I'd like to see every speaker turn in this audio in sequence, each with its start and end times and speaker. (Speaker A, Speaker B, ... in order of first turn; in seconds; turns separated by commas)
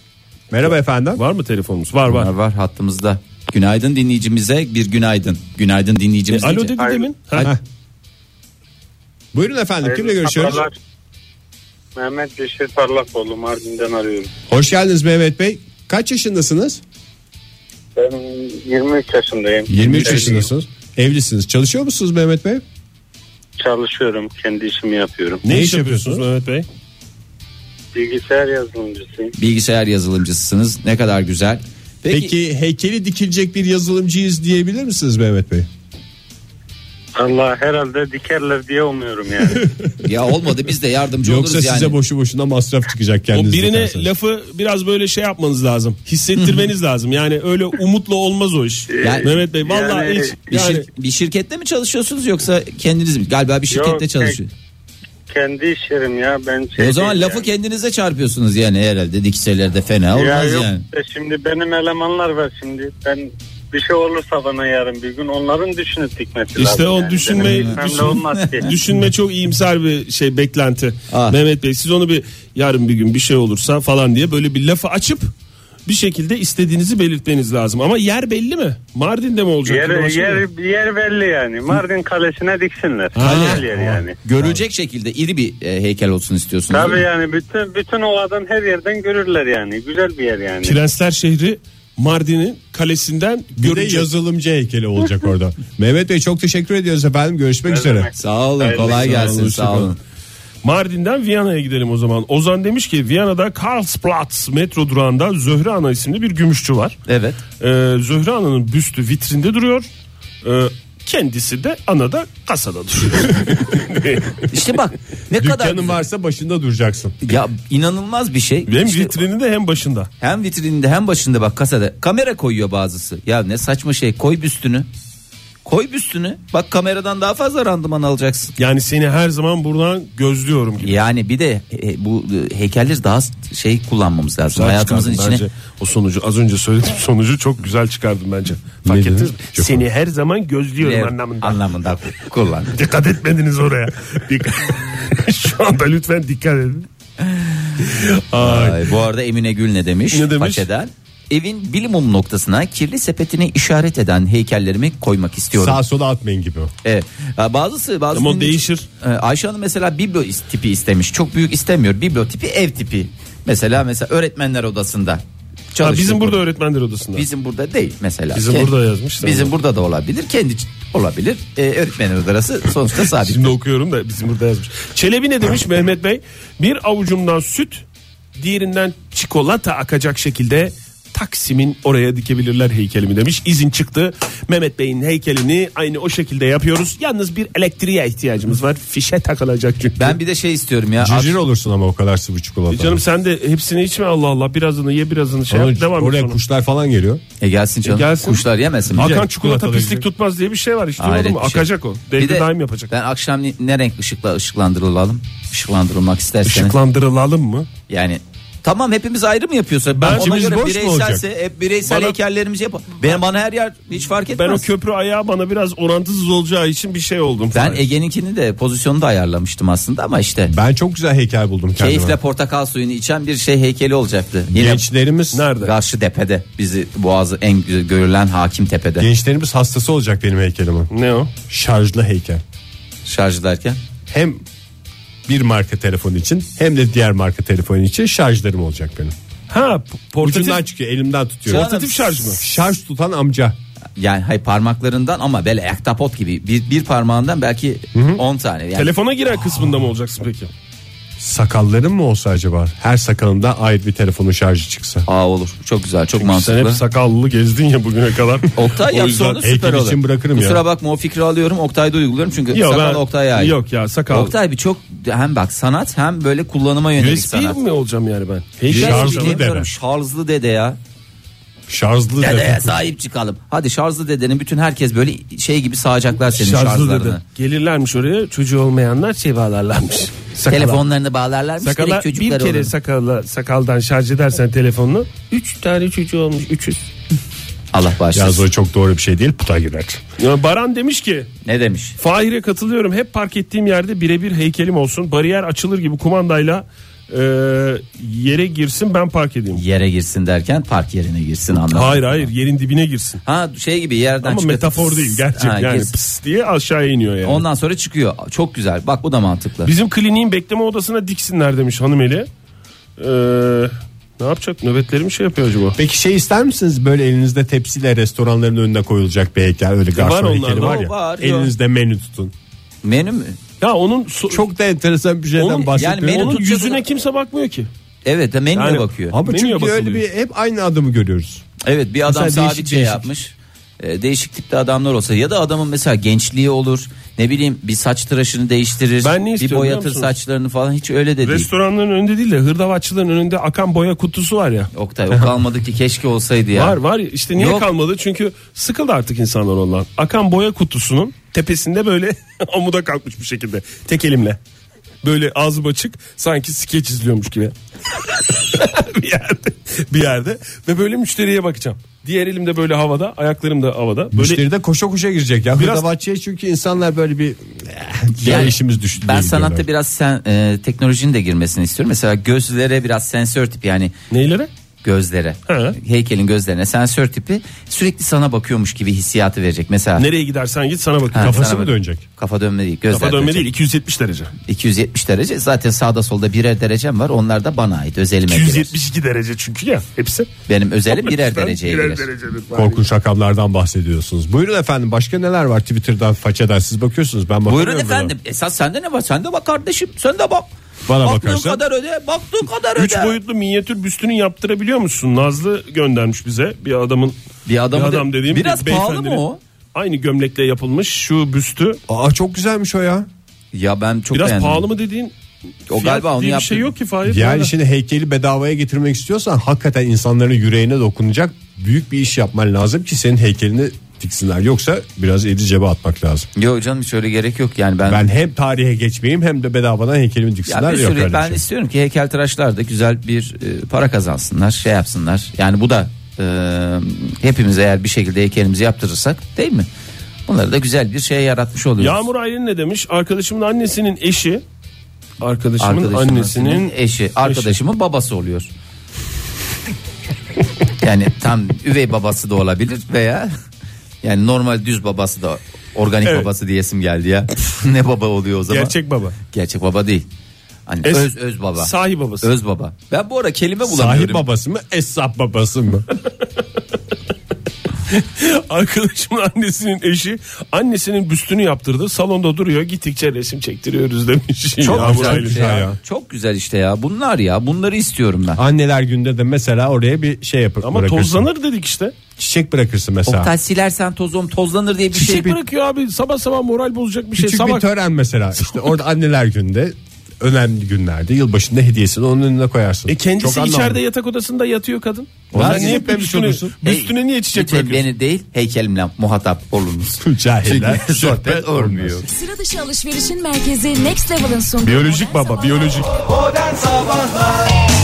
Speaker A: 0.5-1.2, Speaker B: 1.1-2.3, Speaker C: 2.1-6.8, Speaker B: 6.3-7.5, Speaker D: 6.7-7.1, Speaker A: 9.3-10.7, Speaker D: 9.8-10.7, Speaker D: 11.9-14.3, Speaker A: 14.5-16.8, Speaker D: 17.9-20.4, Speaker A: 19.7-22.6, Speaker B: 19.8-20.5, Speaker D: 23.6-25.4, Speaker B: 25.4-26.6, Speaker A: 25.4-26.2, Speaker D: 27.9-29.3, Speaker C: 29.4-32.3, Speaker A: 32.1-35.7, Speaker D: 37.2-39.7, Speaker A: 39.6-39.8, Speaker C: 40.0-42.0, Speaker A: 41.2-44.1, Speaker B: 43.3-50.9, Speaker C: 46.4-46.6, Speaker D: 48.9-50.4, Speaker C: 49.0-49.4, Speaker C: 50.5-54.5, Speaker D: 53.7-54.4, Speaker D: 55.3-57.4, Speaker C: 56.8-60.8, Speaker D: 60.1-68.7, Speaker B: 66.5-75.3, Speaker C: 67.4-68.7, Speaker C: 71.1-71.4, Speaker B: 75.8-80.4, Speaker D: 79.7-84.1, Speaker B: 83.1-83.7, Speaker C: 83.2-83.6, Speaker A: 83.7-84.6, Speaker C: 84.2-87.0, Speaker D: 86.7-90.8, Speaker B: 90.6-94.1, Speaker A: 93.6-98.1, Speaker D: 97.7-99.2, Speaker C: 98.2-100.0, Speaker B: 98.7-99.9, Speaker B: 100.6-107.0, Speaker C: 107.1-107.4, Speaker B: 107.6-109.9, Speaker B: 110.4-114.5, Speaker C: 114.5-116.0, Speaker A: 115.4-117.2, Speaker C: 117.2-119.2, Speaker B: 118.7-120.1, Speaker C: 120.2-124.9, Speaker C: 125.6-128.5, Speaker B: 128.6-131.0, Speaker C: 130.8-135.4, Speaker B: 134.5-141.6, Speaker A: 138.8-139.8, Speaker C: 140.8-142.8, Speaker B: 142.7-146.9, Speaker B: 147.8-148.9, Speaker C: 148.3-155.8, Speaker B: 150.1-150.7, Speaker A: 155.5-156.7, Speaker C: 156.8-166.4, Speaker B: 158.1-158.9, Speaker B: 165.8-167.2, Speaker C: 167.1-173.5, Speaker B: 168.3-169.5, Speaker B: 173.0-177.8, Speaker B: 178.4-190.2, Speaker C: 190.0-191.4, Speaker A: 191.0-193.0, Speaker B: 192.7-196.4, Speaker A: 195.5-197.2, Speaker C: 197.4-199.1, Speaker B: 197.8-202.9, Speaker A: 198.9-200.1, Speaker C: 201.0-206.7, Speaker B: 206.4-207.7, Speaker C: 207.9-214.7, Speaker B: 210.0-210.6, Speaker A: 210.1-211.2, Speaker B: 211.8-212.2, Speaker B: 214.3-217.8, Speaker C: 217.5-220.5, Speaker A: 220.5-222.2, Speaker C: 221.8-224.8, Speaker A: 224.5-225.5, Speaker B: 225.3-225.7, Speaker C: 225.6-229.1, Speaker A: 229.0-230.9, Speaker B: 230.9-231.3, Speaker A: 231.5-232.4, Speaker C: 233.0-233.8, Speaker A: 234.1-234.4, Speaker A: 235.3-239.1, Speaker B: 239.5-240.6, Speaker A: 240.2-241.7, Speaker C: 241.5-242.3, Speaker B: 241.5-242.4, Speaker A: 242.3-243.6, Speaker C: 244.0-248.9, Speaker A: 247.9-248.2, Speaker B: 248.7-250.5, Speaker A: 251.2-255.1, Speaker C: 255.1-256.8, Speaker B: 256.1-259.1, Speaker C: 258.5-263.5, Speaker A: 259.0-260.6, Speaker B: 262.5-264.3, Speaker C: 264.1-267.6, Speaker B: 267.0-269.4, Speaker A: 268.7-269.7, Speaker C: 268.7-270.8, Speaker A: 271.7-272.8, Speaker C: 272.2-277.2, Speaker B: 276.3-280.8, Speaker C: 280.5-282.7, Speaker B: 281.6-286.8, Speaker C: 287.7-288.4, Speaker A: 288.1-290.0, Speaker B: 290.2-291.3, Speaker C: 291.4-292.0, Speaker B: 292.0-299.6, Speaker C: 299.5-302.3, Speaker B: 301.5-303.2, Speaker C: 303.2-305.9, Speaker B: 304.2-307.4, Speaker C: 307.2-309.7, Speaker B: 309.6-312.3, Speaker B: 313.0-315.8, Speaker A: 315.7-322.3, Speaker B: 319.9-320.9, Speaker C: 320.6-321.5, Speaker C: 322.8-323.4, Speaker B: 323.6-324.4, Speaker A: 324.3-326.4, Speaker B: 325.4-327.7, Speaker C: 325.7-326.8, Speaker C: 328.0-329.2, Speaker B: 328.5-330.0, Speaker A: 329.1-331.4, Speaker C: 331.6-341.5, Speaker A: 332.1-333.1, Speaker B: 339.0-340.1, Speaker B: 341.2-344.7, Speaker C: 344.7-346.8, Speaker B: 346.5-354.4, Speaker C: 347.4-347.7, Speaker B: 355.0-364.4, Speaker A: 364.1-369.6, Speaker B: 365.6-365.8, Speaker C: 368.2-373.9, Speaker B: 374.1-374.5, Speaker C: 374.8-380.1, Speaker B: 375.5-375.8, Speaker B: 380.0-381.6, Speaker C: 381.1-383.5, Speaker A: 381.2-382.0, Speaker B: 382.9-384.3, Speaker C: 384.4-388.7, Speaker B: 388.3-390.3, Speaker C: 390.5-392.1, Speaker B: 390.9-392.8, Speaker A: 392.5-398.1, Speaker C: 397.5-400.5, Speaker A: 400.9-401.6, Speaker C: 401.0-403.2, Speaker B: 402.8-407.1, Speaker C: 407.4-409.4, Speaker B: 407.7-411.8, Speaker A: 411.9-413.1, Speaker C: 413.5-414.6, Speaker B: 414.1-415.1, Speaker C: 415.7-416.7, Speaker B: 415.7-417.5, Speaker A: 417.0-426.3, Speaker C: 426.4-428.0, Speaker A: 427.9-431.4, Speaker C: 430.4-439.7, Speaker C: 440.3-442.0, Speaker B: 441.8-444.4, Speaker B: 445.2-446.7, Speaker C: 445.6-448.5, Speaker B: 447.2-447.5, Speaker C: 450.8-453.3, Speaker C: 454.0-460.1, Speaker B: 458.5-459.1, Speaker C: 460.7-464.2, Speaker B: 460.8-462.3, Speaker A: 463.6-465.9, Speaker B: 467.9-475.6, Speaker C: 474.6-478.4, Speaker A: 474.7-475.8, Speaker A: 478.4-481.3, Speaker B: 480.6-481.9, Speaker A: 482.2-483.3, Speaker C: 483.1-485.4, Speaker B: 484.9-487.6, Speaker A: 487.1-493.8, Speaker B: 492.9-497.8, Speaker A: 495.3-496.5, Speaker C: 495.3-495.8, Speaker C: 496.6-502.1, Speaker A: 500.0-502.1, Speaker E: 502.0-505.9, Speaker B: 504.6-506.0, Speaker C: 506.3-507.2